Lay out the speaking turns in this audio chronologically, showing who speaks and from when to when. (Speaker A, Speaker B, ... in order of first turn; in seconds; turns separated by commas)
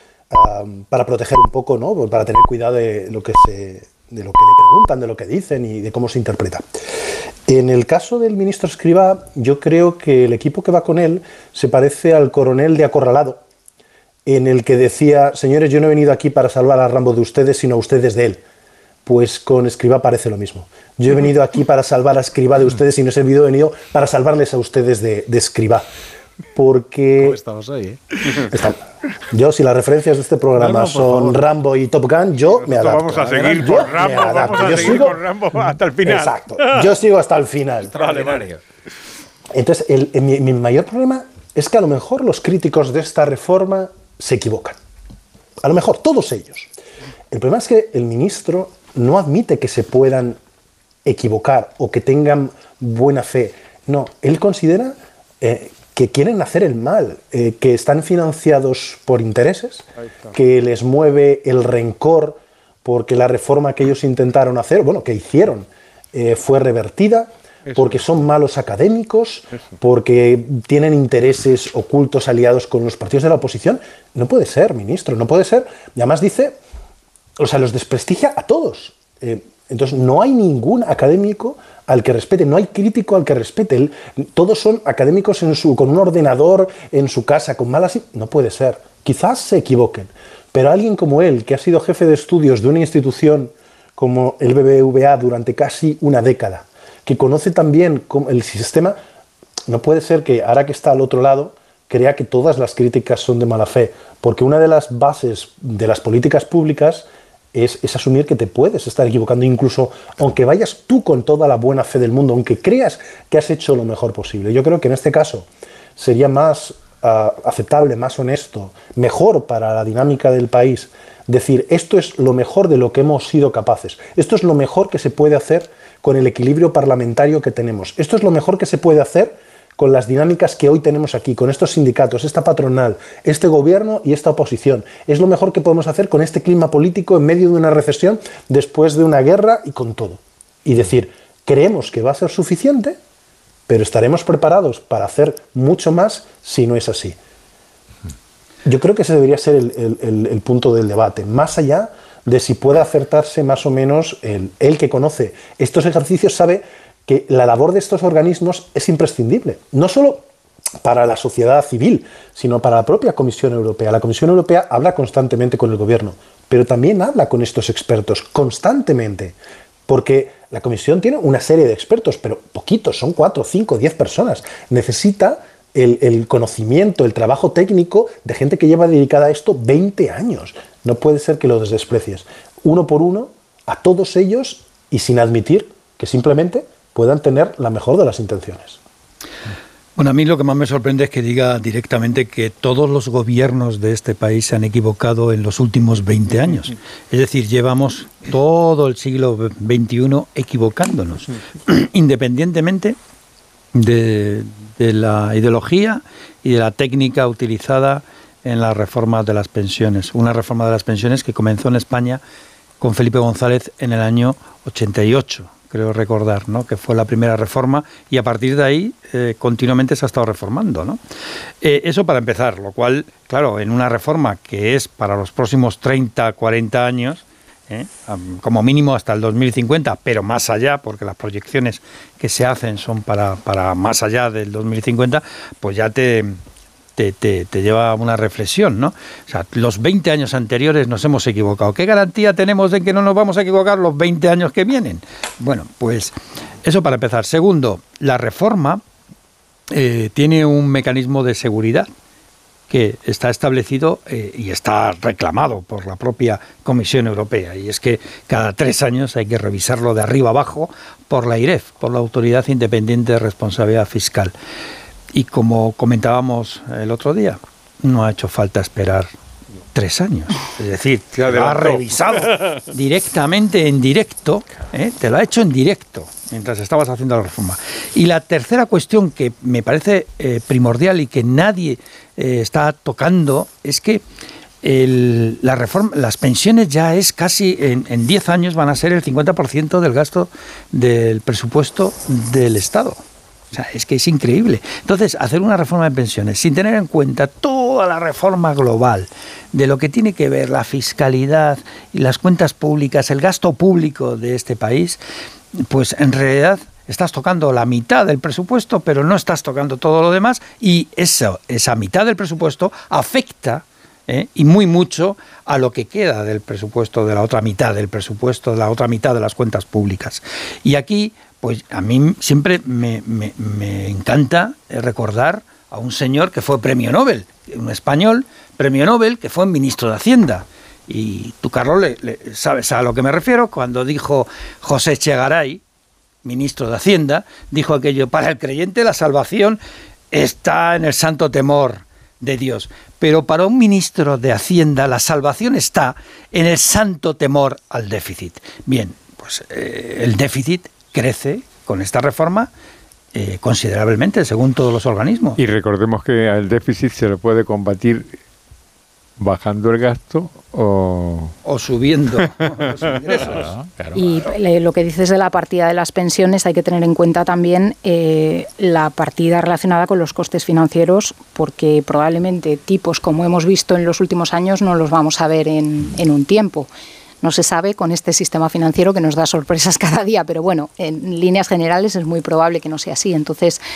Speaker A: 0.3-6.6, Speaker A: 7.5-13.4, Speaker A: 14.2-18.4, Speaker A: 19.0-25.9, Speaker A: 26.5-27.4, Speaker B: 27.2-28.4, Speaker A: 28.4-35.2, Speaker B: 30.6-31.4, Speaker C: 32.6-36.9, Speaker B: 33.6-35.1, Speaker A: 36.0-38.1, Speaker B: 37.8-38.6, Speaker C: 38.0-38.5, Speaker A: 39.5-44.8, Speaker A: 45.6-46.7, Speaker A: 47.3-50.4, Speaker A: 51.0-76.6, Speaker C: 67.7-68.0, Speaker A: 77.4-99.0, Speaker A: 99.7-143.0, Speaker A: 143.7-147.2, Speaker A: 148.6-160.2, Speaker A: 160.8-169.3, Speaker A: 169.9-188.8, Speaker D: 189.9-202.9, Speaker D: 203.7-212.2, Speaker D: 212.8-221.0, Speaker D: 221.6-236.4, Speaker D: 237.0-248.8, Speaker D: 249.7-251.9, Speaker D: 252.7-264.3, Speaker D: 265.1-269.1, Speaker D: 269.7-284.0, Speaker C: 271.2-271.9, Speaker D: 284.6-293.0, Speaker D: 293.5-305.0, Speaker D: 305.6-335.6, Speaker D: 336.2-339.6, Speaker D: 340.1-352.5, Speaker D: 353.1-355.4, Speaker C: 355.4-358.2, Speaker C: 359.2-361.3, Speaker D: 361.4-363.4, Speaker B: 363.2-364.0, Speaker E: 363.9-376.7, Speaker E: 377.2-383.6